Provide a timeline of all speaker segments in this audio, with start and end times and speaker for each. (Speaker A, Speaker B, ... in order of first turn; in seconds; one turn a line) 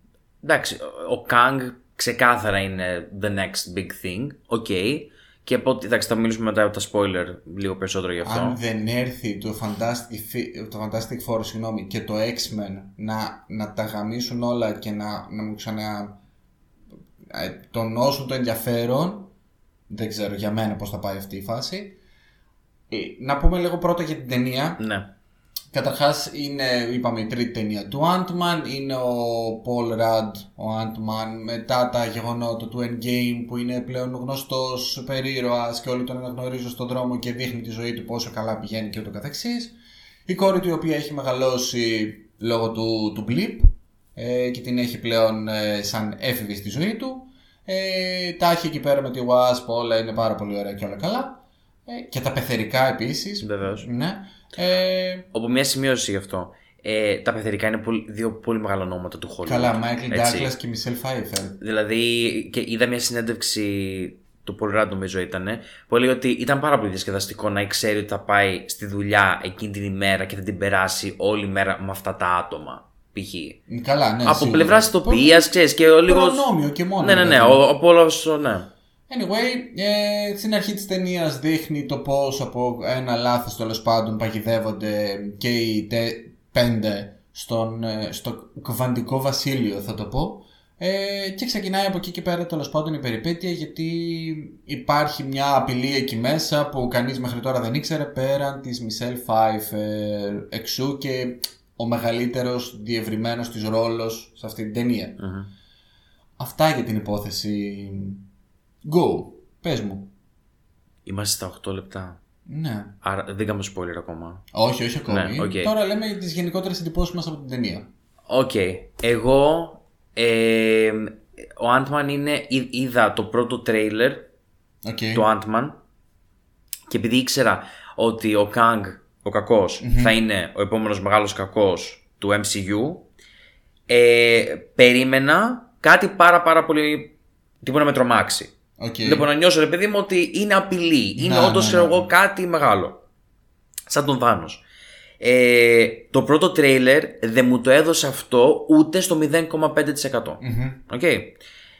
Speaker A: 0.4-8.6
Speaker B: 8.2-16.2
Speaker B: 17.2-19.3
Speaker B: 19.9-22.0
Speaker B: 22.9-24.8
Speaker A: 24.8-25.1
Speaker B: 25.7-39.8
Speaker B: 40.3-55.3
Speaker A: 53.4-53.9
Speaker A: 55.3-60.5
Speaker B: 59.4-61.6
Speaker A: 61.6-73.6
Speaker B: 73.7-75.5
Speaker A: 74.2-76.4
Speaker B: 76.0-77.6
Speaker A: 77.0-78.7
Speaker B: 79.1-105.2
Speaker A: 105.2-105.5
Speaker B: 106.4-108.2
Speaker B: 108.8-110.1
Speaker A: 111.0-112.2
Speaker B: 112.5-112.9
Speaker A: 113.0-114.4
Speaker B: 114.5-117.9
Speaker A: 115.1-115.7
Speaker A: 118.3-124.3
Speaker B: 124.8-125.2
Speaker A: 125.1-125.8
Speaker A: 126.9-133.0
Speaker B: 129.8-130.1
Speaker A: 133.9-138.5
Speaker B: 138.8-139.3
Speaker A: 139.0-143.0
Speaker B: 141.2-142.1
Speaker A: 143.9-144.6
Speaker A: 145.2-151.3
Speaker B: 150.4-150.8